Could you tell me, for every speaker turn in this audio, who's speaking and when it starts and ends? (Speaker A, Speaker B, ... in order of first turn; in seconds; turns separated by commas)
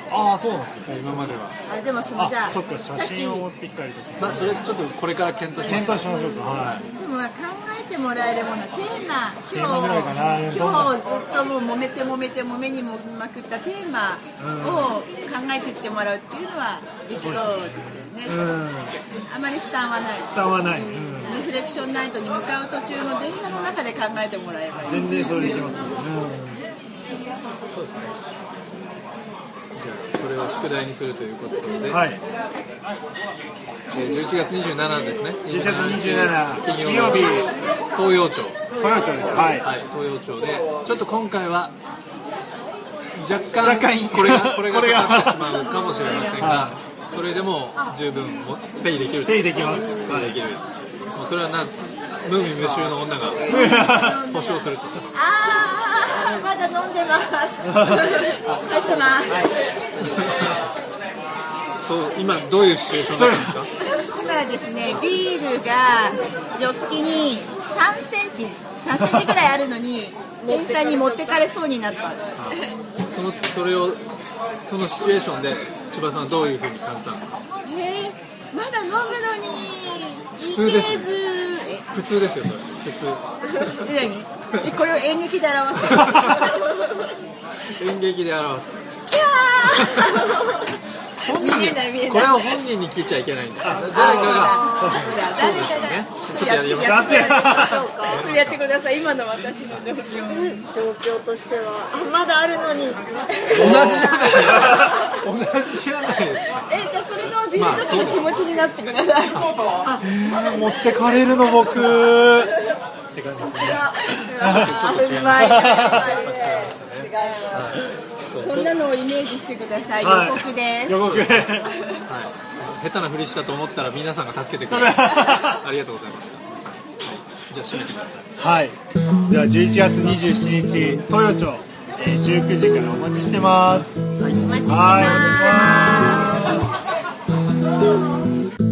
Speaker A: 0.1-1.4, Speaker B: 0.9-1.6, Speaker C: 1.7-3.5, Speaker A: 2.2-4.8, Speaker B: 4.2-6.0, Speaker C: 5.6-18.4, Speaker A: 5.6-6.9, Speaker A: 9.5-11.0, Speaker A: 14.4-14.9, Speaker A: 17.2-19.0, Speaker C: 19.2-25.4, Speaker A: 20.3-21.5, Speaker A: 24.7-26.7, Speaker B: 27.7-28.1, Speaker B: 29.7-32.0, Speaker A: 31.9-32.2, Speaker B: 33.9-38.7, Speaker A: 35.5-37.5, Speaker A: 38.8-39.7, Speaker B: 39.4-41.8, Speaker B: 43.1-55.1, Speaker A: 43.6-45.7, Speaker D: 45.8-46.1, Speaker A: 46.4-46.8, Speaker A: 49.2-50.4, Speaker C: 53.4-59.5, Speaker A: 53.5-54.2, Speaker A: 57.6-58.1, Speaker B: 60.0-60.5, Speaker B: 61.8-63.7, Speaker A: 63.1-63.6, Speaker C: 63.8-72.7, Speaker A: 69.0-69.3, Speaker D: 70.4-71.4, Speaker B: 72.4-74.0, Speaker B: 74.7-77.2, Speaker C: 77.6-81.9, Speaker B: 80.5-81.2, Speaker B: 81.9-83.9, Speaker C: 83.6-86.7, Speaker B: 85.9-86.6, Speaker B: 87.7-88.8, Speaker C: 89.1-90.4, Speaker B: 89.8-90.1, Speaker B: 91.2-98.6, Speaker C: 91.2-92.4, Speaker A: 93.6-95.2, Speaker C: 93.8-100.5, Speaker D: 94.4-95.2, Speaker A: 96.8-97.8, Speaker D: 97.3-98.3, Speaker D: 100.2-104.9, Speaker B: 103.5-108.4, Speaker A: 103.6-105.0, Speaker C: 106.6-110.0, Speaker A: 110.0-112.5, Speaker A: 113.1-114.8, Speaker C: 113.4-117.8, Speaker B: 114.4-118.7, Speaker A: 115.3-116.2, Speaker C: 118.3-121.0, Speaker A: 120.0-121.7, Speaker B: 121.0-121.5, Speaker C: 121.7-122.0, Speaker B: 122.1-128.3, Speaker A: 124.7-125.6, Speaker A: 128.4-134.1, Speaker B: 134.2-134.5, Speaker C: 134.4-136.6, Speaker A: 134.7-136.7